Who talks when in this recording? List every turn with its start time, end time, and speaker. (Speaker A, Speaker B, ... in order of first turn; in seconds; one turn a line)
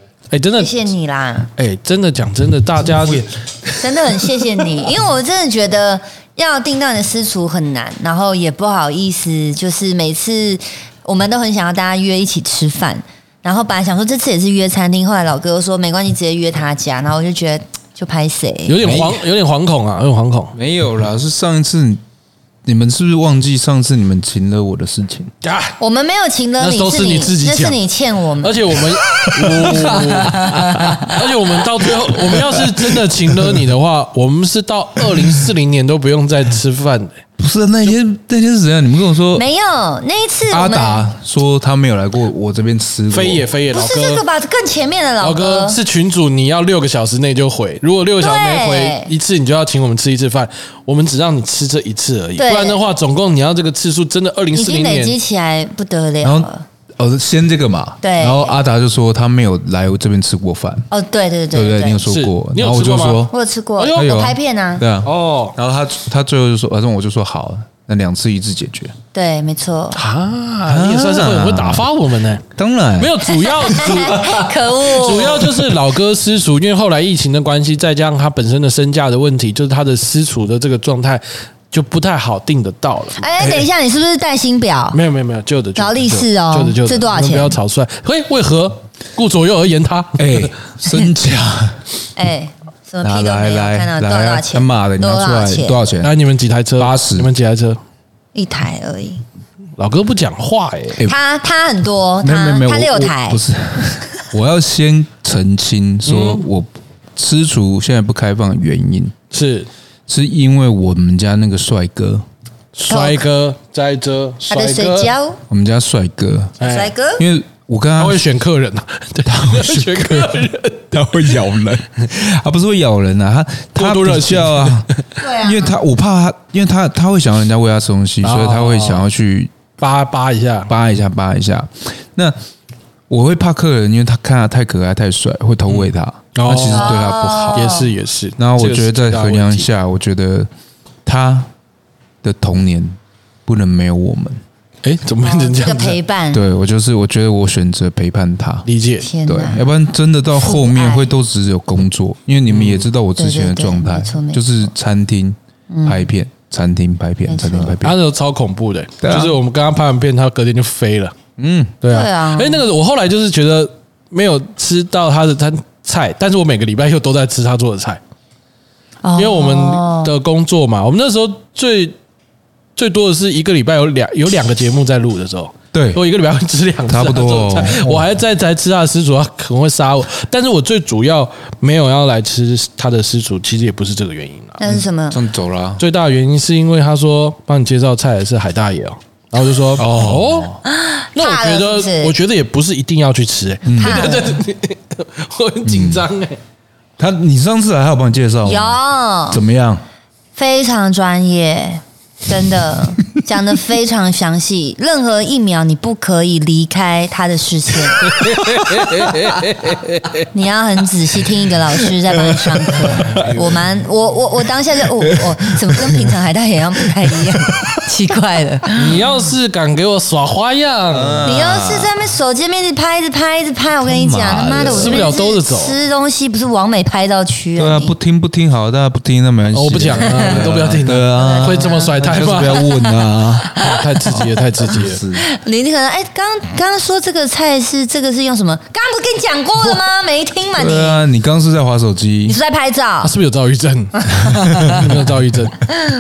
Speaker A: 0.3-0.8
Speaker B: 0.6-1.5
Speaker A: 1.6-3.3
Speaker C: 2.9-4.9
Speaker B: 3.8-18.8
Speaker A: 18.7-20.6
Speaker C: 18.8-19.2
Speaker C: 20.6-22.0
Speaker C: 22.7-25.3
Speaker A: 25.4-25.8
Speaker B: 25.8-28.9
Speaker A: 26.6-27.8
Speaker A: 28.4-37.2
Speaker C: 29.3-31.0
Speaker B: 30.5-31.0
Speaker C: 32.1-33.6
Speaker C: 35.2-35.5
Speaker C: 37.4-39.5
Speaker B: 39.4-41.1
Speaker C: 40.5-43.5
Speaker A: 43.1-44.2
Speaker B: 43.7-45.8
Speaker A: 45.2-55.2
Speaker B: 48.2-49.1
Speaker B: 52.4-52.8
Speaker B: 54.5-56.6
Speaker C: 56.2-60.9
Speaker B: 58.0-58.5
Speaker B: 60.9-62.0
Speaker C: 61.5-63.3
Speaker A: 62.1-64.1
Speaker B: 63.3-64.8
Speaker C: 64.0-69.0
Speaker A: 65.0-65.6
Speaker B: 69.1-70.0
Speaker A: 69.9-72.4
Speaker C: 70.7-71.9
Speaker C: 72.5-73.3
Speaker A: 73.0-83.3
Speaker B: 73.3-75.5
Speaker C: 73.9-74.5
Speaker C: 75.4-75.7
Speaker B: 83.2-85.0
Speaker A: 84.9-90.5
Speaker B: 85.8-87.6
Speaker C: 90.2-91.8
Speaker B: 92.2-95.8
Speaker C: 93.0-96.1
Speaker A: 96.0-97.8
Speaker C: 96.8-97.3
Speaker B: 98.3-99.2
Speaker A: 99.8-101.0
Speaker B: 101.0-103.4
Speaker C: 102.2-109.1
Speaker A: 106.1-106.5
Speaker A: 109.3-109.7
Speaker C: 110.1-112.2
Speaker A: 112.8-115.1
Speaker B: 112.9-113.2
Speaker B: 114.5-115.4
Speaker C: 115.5-116.6
Speaker A: 116.6-116.9
Speaker B: 116.6-117.2
Speaker C: 117.2-118.2
Speaker A: 118.0-120.9
Speaker C: 119.3-129.5
Speaker A: 123.8-125.0
Speaker B: 125.2-125.8
Speaker A: 128.2-129.1
Speaker A: 129.8-130.7
Speaker C: 130.7-132.4
Speaker C: 133.1-137.7
Speaker A: 135.7-137.0
Speaker B: 136.7-137.9
Speaker A: 137.5-139.7
Speaker C: 138.4-140.5
Speaker C: 141.1-141.5
Speaker C: 142.2-144.4
Speaker A: 144.8-146.0
Speaker B: 145.2-146.4
Speaker C: 146.3-148.7
Speaker A: 148.7-149.1
Speaker B: 149.0-149.7
Speaker C: 149.3-158.0
Speaker B: 150.3-151.1
Speaker A: 152.5-152.8
Speaker B: 153.2-154.4
Speaker B: 155.7-156.1
Speaker B: 157.3-157.8
Speaker A: 157.8-161.2
Speaker C: 159.0-159.4
Speaker C: 161.4-161.8
Speaker A: 161.8-168.0
Speaker B: 161.9-162.6
Speaker B: 169.0-170.1
Speaker A: 169.2-171.9
Speaker A: 172.8-184.6
Speaker C: 175.7-176.0
Speaker C: 176.9-178.1
Speaker B: 184.6-185.2
Speaker C: 184.7-185.8
Speaker A: 185.8-190.6
Speaker C: 189.8-190.6
Speaker B: 190.7-192.1
Speaker A: 191.2-196.4
Speaker C: 193.7-194.2
Speaker B: 193.8-194.4
Speaker C: 195.6-196.1
Speaker C: 197.0-198.8
Speaker B: 198.4-199.4
Speaker C: 199.3-199.8
Speaker B: 200.4-208.2
Speaker A: 208.1-210.3
Speaker B: 210.3-219.3
Speaker C: 212.4-213.5
Speaker A: 213.0-213.3
Speaker C: 215.0-216.2
Speaker C: 216.8-217.7
Speaker A: 218.8-221.3
Speaker C: 220.9-221.9
Speaker B: 221.2-227.9
Speaker C: 223.8-225.2
Speaker A: 224.6-225.8
Speaker C: 227.6-235.3
Speaker A: 229.5-232.7
Speaker B: 230.1-230.5
Speaker B: 231.2-233.1
Speaker A: 233.5-235.0
Speaker B: 235.2-241.0
Speaker C: 240.6-242.4
Speaker B: 242.3-243.1
Speaker A: 243.0-245.7
Speaker B: 244.1-244.6
Speaker C: 244.2-245.0